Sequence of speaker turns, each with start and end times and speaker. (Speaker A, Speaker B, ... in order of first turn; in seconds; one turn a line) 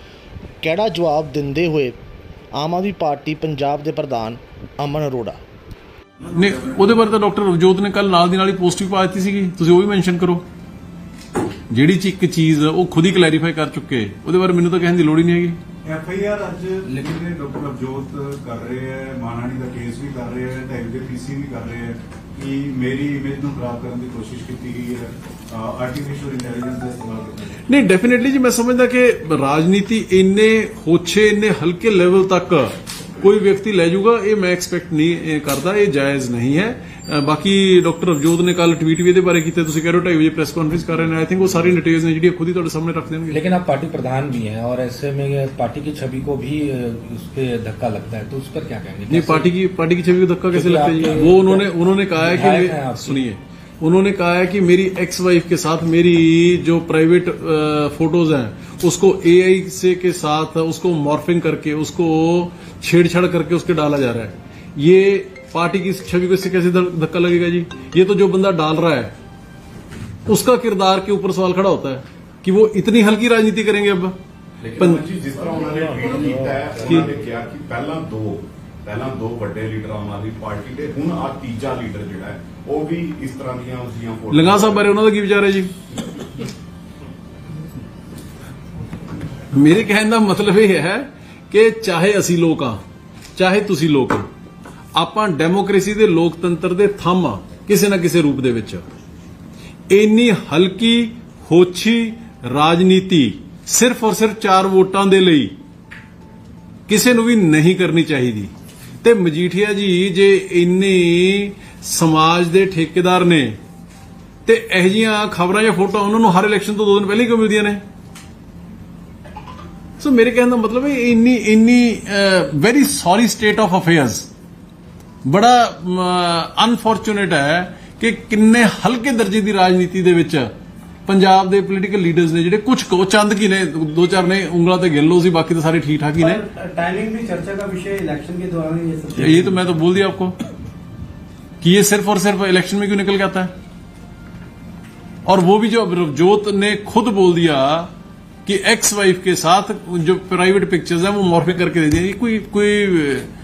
Speaker A: 0.6-2.0
Speaker A: 2.5-5.4
Speaker B: 6.2-6.8
Speaker C: 6.3-10.4
Speaker C: 11.7-15.6
Speaker B: 15.8-27.6
Speaker C: 27.7-43.4
Speaker D: 43.3-49.5
Speaker C: 49.1-69.1
Speaker D: 50.5-53.2
Speaker C: 70.3-74.2
Speaker E: 74.6-84.9
Speaker C: 74.7-75.0
Speaker C: 76.8-77.1
Speaker C: 84.3-85.7
Speaker C: 89.5-92.8
Speaker C: 93.4-94.3
Speaker C: 95.0-98.8
Speaker C: 99.9-105.5
Speaker C: 106.9-113.6
Speaker C: 114.5-117.8
Speaker C: 120.0-124.3
Speaker C: 125.2-130.5
Speaker C: 131.1-136.4
Speaker F: 136.2-139.4
Speaker C: 139.1-140.3
Speaker C: 141.6-143.5
Speaker C: 145.2-147.9
Speaker C: 148.4-153.3